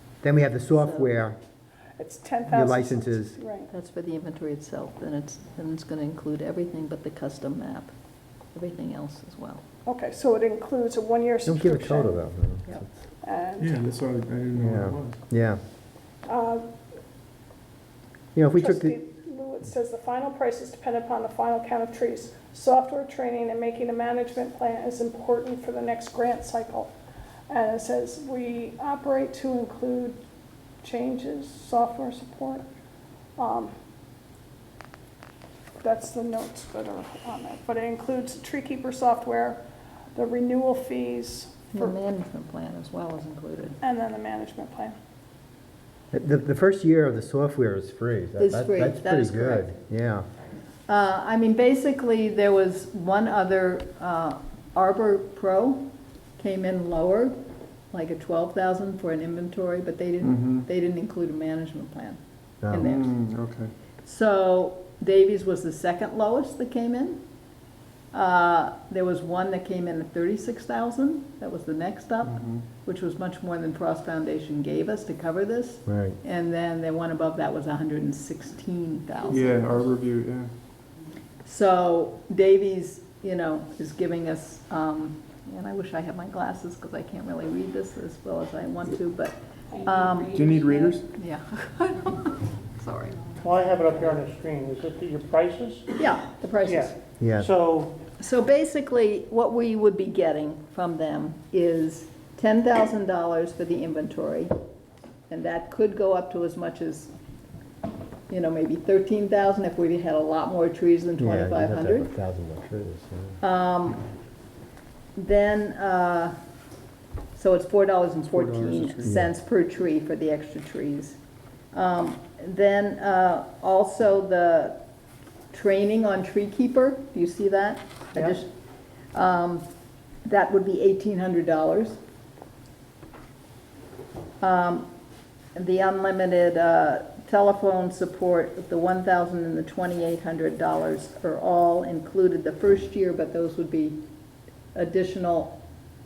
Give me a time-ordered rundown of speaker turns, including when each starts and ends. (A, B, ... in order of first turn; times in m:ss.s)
0:00.2-0:01.4 A
0:00.7-0:01.1 B
0:02.0-0:03.7 C
0:02.5-0:03.3 A
0:03.7-0:07.9 B
0:08.5-0:09.6 B
0:09.8-0:12.2 C
0:11.4-0:12.9 A
0:13.2-0:13.7 C
0:13.6-0:15.2 D
0:14.5-0:15.6 A
0:16.2-0:16.7 C
0:18.3-0:19.0 A
0:18.6-0:26.9 C
0:27.5-0:30.2 C
0:30.8-0:32.6 C
0:33.4-0:33.7 C
0:35.8-0:39.6 C
0:40.1-0:41.9 C
0:41.7-0:43.8 B
0:43.8-0:45.0 C
0:46.1-0:50.3 A
0:48.4-0:49.7 B
0:50.9-0:55.9 B
0:56.4-0:57.3 B
0:57.9-1:02.2 B
1:00.2-1:00.6 D
1:02.6-1:02.9 A
1:02.7-1:03.1 B
1:02.7-1:03.7 D
1:04.0-1:07.2 B
1:08.1-1:19.8 B
1:12.2-1:12.6 D
1:15.8-1:16.2 A
1:19.3-1:20.5 D
1:21.4-1:30.5 B
1:30.3-1:31.1 D
1:31.1-1:33.3 B
1:33.4-1:35.9 E
1:36.0-1:37.0 B
1:36.6-1:38.0 E
1:37.2-1:37.4 A
1:38.1-1:44.5 B
1:45.3-1:47.1 B
1:48.3-1:52.1 B
1:51.2-1:53.4 A
1:53.4-1:54.0 B
1:55.2-1:56.3 B
1:57.3-2:01.2 B
1:58.2-1:59.1 D
1:59.0-1:59.3 A
2:01.7-2:04.8 B
2:05.5-2:08.5 B
2:09.1-2:09.6 B
2:10.2-2:12.0 B
2:14.4-2:14.9 B
2:15.5-2:24.0 B
2:24.7-2:25.6 B